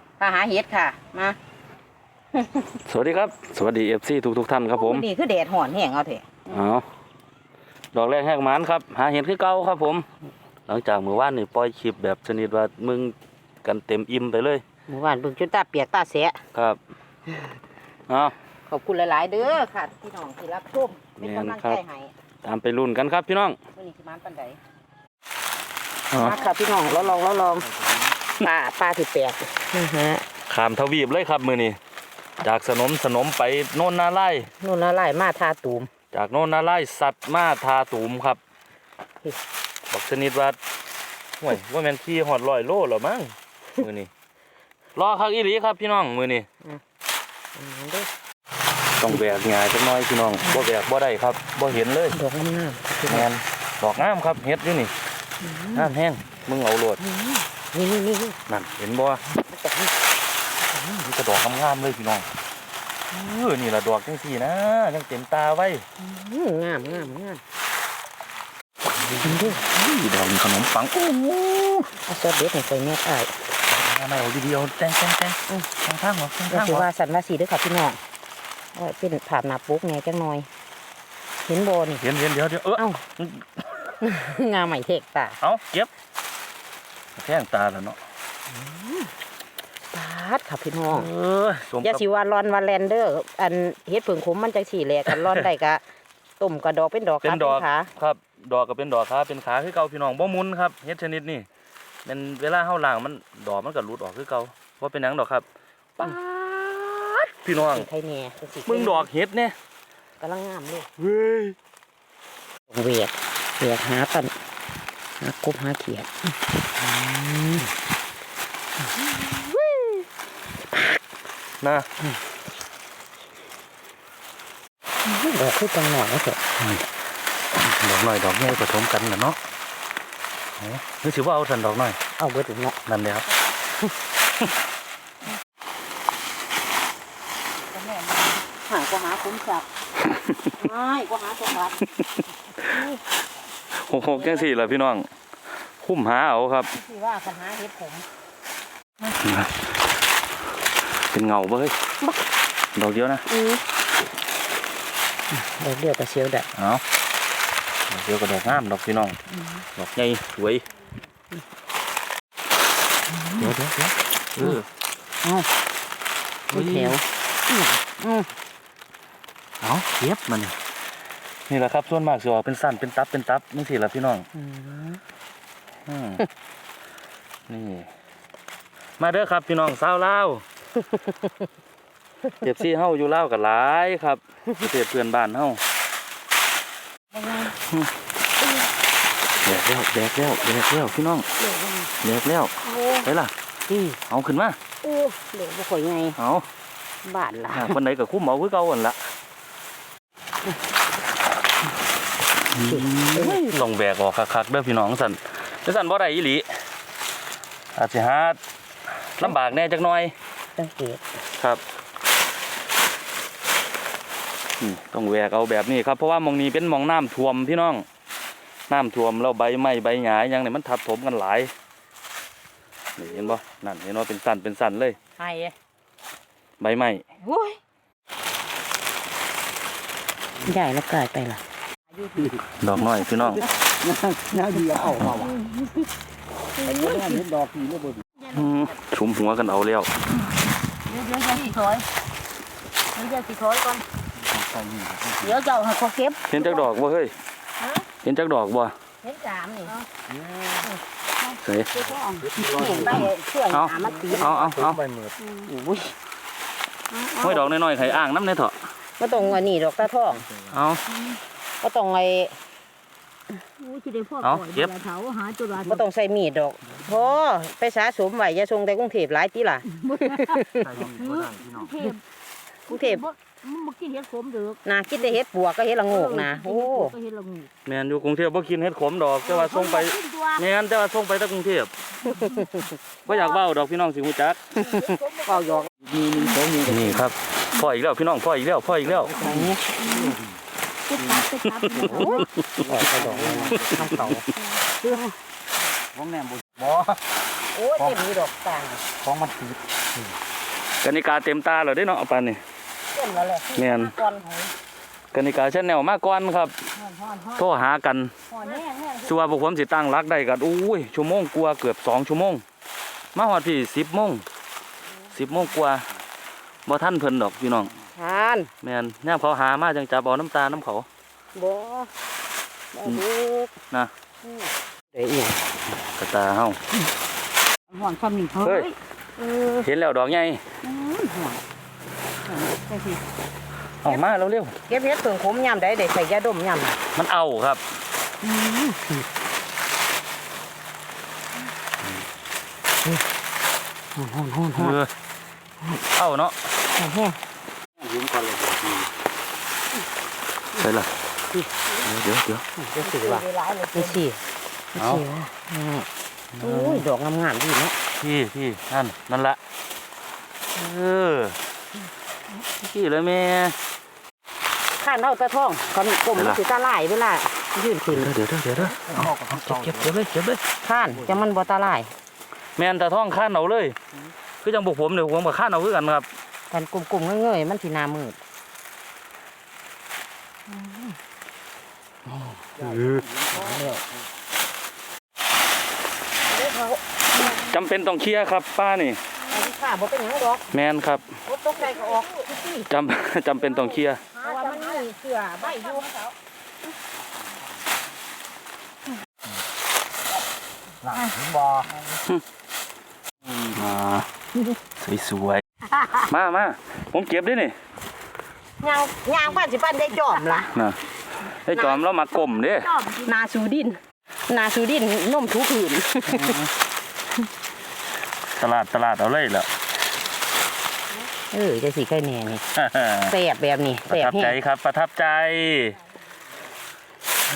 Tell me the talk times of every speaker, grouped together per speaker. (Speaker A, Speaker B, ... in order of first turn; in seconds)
Speaker A: 0.2-1.4, 4.7-6.4, 14.9-16.4, 18.7-22.1, 23.7-24.6, 26.2-27.7, 28.4-30.2, 34.6-35.9, 47.5-48.1, 52.1-53.3, 55.4-55.9, 57.0-58.4, 59.3-59.9, 66.0-67.4, 69.1-69.6, 72.0-73.5, 76.5-78.0, 78.8-80.5, 81.5-82.0, 84.0-85.4, 88.5-89.1, 89.9-91.1, 91.8-95.8, 96.4-97.9, 107.7-109.1, 110.2-110.9, 112.7-114.3, 115.2-116.3, 119.1-120.0, 120.7-121.0, 125.0-126.4, 132.2-132.8, 137.9-139.7, 140.5-141.9, 142.6-143.0, 144.2-144.5, 146.7-148.1, 153.3-153.6, 155.3-156.5, 163.1-163.5, 166.5-168.3, 174.3-175.0, 187.2-187.5, 191.4-191.9, 192.7-193.1, 193.7-194.0, 194.8-196.2, 197.0-197.8, 202.7-203.7, 210.6-211.0, 225.2-225.5, 227.2-227.6, 230.4-231.4, 234.3-235.4, 236.6-237.3, 240.9-241.9, 242.9-243.8, 245.2-246.7, 249.0-249.8, 251.8-254.5, 255.2-256.0, 256.9-257.5, 259.0-260.3, 261.6-262.3, 265.5-270.8, 272.7-273.1, 274.6-277.0, 282.0-282.8, 284.5-285.7, 289.1-289.6, 291.8-295.1, 297.5-298.8, 302.9-304.5, 308.4-308.9, 317.9-318.5, 321.3-321.9, 322.7-323.5, 324.2-325.4, 327.8-329.7, 330.6-331.4, 332.4-333.0, 334.6-336.8, 338.2-339.1, 343.9-344.8, 346.8-347.2, 352.6-354.2, 354.8-355.9, 356.4-357.8, 364.8-368.1, 370.6-371.9, 376.5-378.2, 383.3-383.8, 386.3-386.8, 389.3-390.5, 391.2-392.5, 394.1-395.9, 400.8-401.8, 408.6-410.5, 412.9-416.4, 421.3-422.4, 423.1-424.4
Speaker B: 2.8-5.0, 6.5-6.8, 7.9-10.1, 10.7-14.6, 16.5-16.8, 18.1-18.3, 21.2-21.8, 22.4-23.6, 26.1-26.4, 30.5-31.8, 32.4-34.5, 36.1-38.4, 39.9-40.6, 41.4-44.1, 45.0-46.5, 49.0-52.2, 53.1-54.9, 55.7-57.0, 58.5-59.2, 60.9-62.3, 63.1-65.8, 69.1-71.9, 73.7-76.9, 82.0-83.8, 85.4-85.9, 87.2-88.0, 90.9-92.0, 95.1-95.5, 97.2-101.5, 102.0-105.4, 106.0-107.9, 108.7-109.5, 111.0-111.5, 117.0-117.6, 121.6-121.9, 126.6-126.9, 127.5-129.4, 130.6-132.0, 132.9-133.3, 142.0-142.2, 143.8-145.1, 145.8-146.7, 149.1-149.7, 151.1-151.8, 152.8-153.2, 156.6-156.8, 157.9-159.2, 159.8-160.7, 163.4-164.7, 166.5-167.0, 169.6-170.6, 171.5-174.3, 175.9-176.3, 177.5-177.9, 179.0-180.4, 182.3-185.6, 187.5-187.9, 189.4-191.3, 192.0-193.3, 194.1-194.6, 196.2-196.5, 197.5-199.0, 202.5-206.5, 207.8-208.4, 209.2-210.1, 214.6-217.8, 218.7-221.5, 223.0-225.0, 226.6-227.0, 232.4-233.5, 238.3-239.9, 246.3-247.1, 248.0-248.7, 251.3-251.8, 252.9-254.8, 257.2-258.6, 260.5-260.8, 264.2-264.8, 270.8-271.5, 277.6-281.7, 283.1-284.6, 286.5-289.2, 291.4-292.3, 300.8-302.4, 303.6-303.9, 305.1-306.5, 307.2-308.1, 309.0-312.4, 313.1-314.2, 315.1-315.9, 316.6-317.7, 318.6-320.9, 325.8-326.6, 328.4-328.7, 329.6-330.4, 333.8-334.6, 336.9-337.6, 344.6-344.9, 345.8-346.4, 350.6-350.9, 351.8-352.4, 354.8-355.0, 356.3-356.9, 357.9-359.4, 360.5-361.4, 362.4-363.6, 366.1-366.4, 367.9-370.4, 372.6-373.8, 374.4-376.1, 382.6-383.1, 387.2-389.0, 390.5-391.0, 392.6-394.0, 403.4-404.1, 404.8-407.6, 410.5-412.9, 416.0-416.5, 418.4-419.5, 422.5-423.1, 423.9-425.8
Speaker C: 234.4-234.8, 237.2-237.8, 244.6-245.1, 286.0-286.7, 293.1-293.5, 296.1-296.9, 299.1-299.5
Speaker D: 263.5-265.8, 269.8-272.0, 272.7-274.6, 275.9-277.5, 279.4-280.4, 284.7-286.5, 289.8-290.2, 290.9-292.2, 353.2-353.7, 394.2-394.6, 395.7-396.0, 412.8-413.1